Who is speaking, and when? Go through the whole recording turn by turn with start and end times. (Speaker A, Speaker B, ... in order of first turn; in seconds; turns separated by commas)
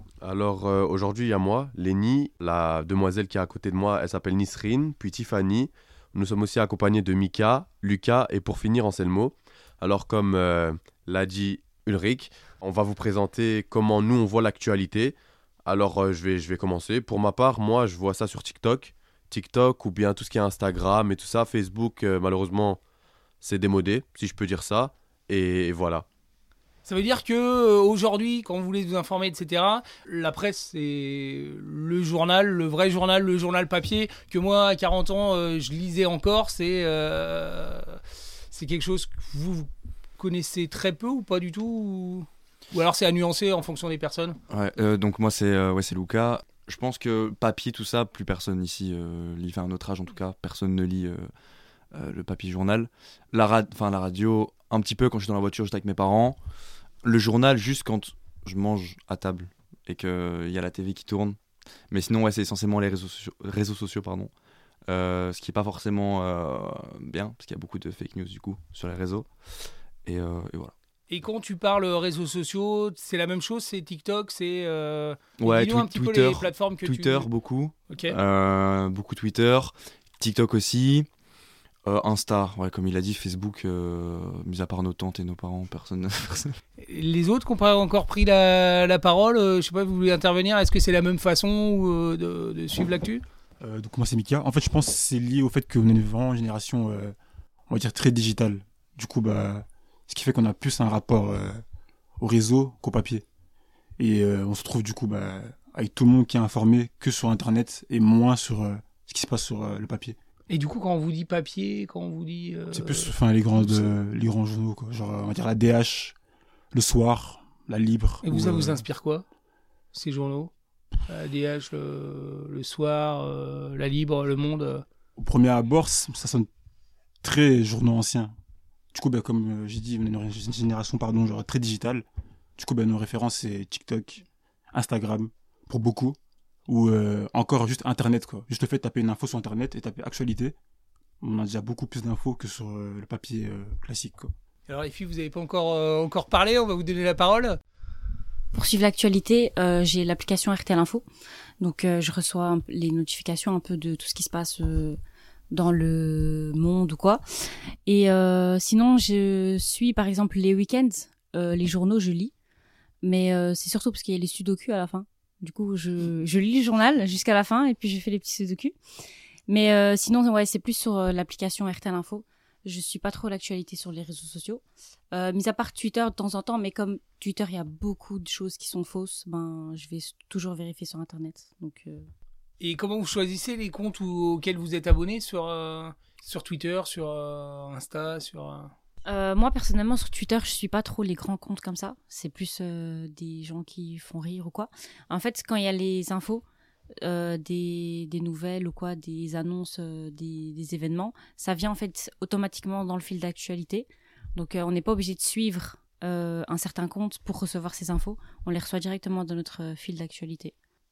Speaker A: 0.2-22.8, Speaker A: 23.4-26.1, Speaker B: 26.8-38.0, Speaker B: 38.5-44.4, Speaker C: 44.5-51.3, Speaker C: 51.9-56.4, Speaker C: 57.0-61.4, Speaker C: 61.9-64.3, Speaker C: 64.9-69.3, Speaker C: 70.0-70.7, Speaker B: 71.1-77.3, Speaker C: 75.4-81.1, Speaker B: 77.9-78.2, Speaker C: 81.8-86.5, Speaker B: 86.8-93.2, Speaker D: 93.6-97.2, Speaker D: 97.7-101.6, Speaker D: 102.2-103.2, Speaker D: 104.0-110.2, Speaker B: 110.5-113.9, Speaker D: 112.7-116.2, Speaker D: 116.7-118.8, Speaker B: 118.2-119.2, Speaker B: 119.9-120.5, Speaker B: 121.1-124.8, Speaker D: 125.2-126.5, Speaker D: 127.2-128.3, Speaker D: 128.9-132.1, Speaker D: 132.6-140.5, Speaker D: 141.2-144.3, Speaker B: 144.7-147.6, Speaker E: 148.5-151.0, Speaker E: 151.6-155.0, Speaker E: 155.5-157.2, Speaker E: 157.8-162.3, Speaker E: 163.0-168.8, Speaker E: 169.5-182.1, Speaker B: 182.6-188.7, Speaker E: 189.1-196.4, Speaker E: 197.0-210.5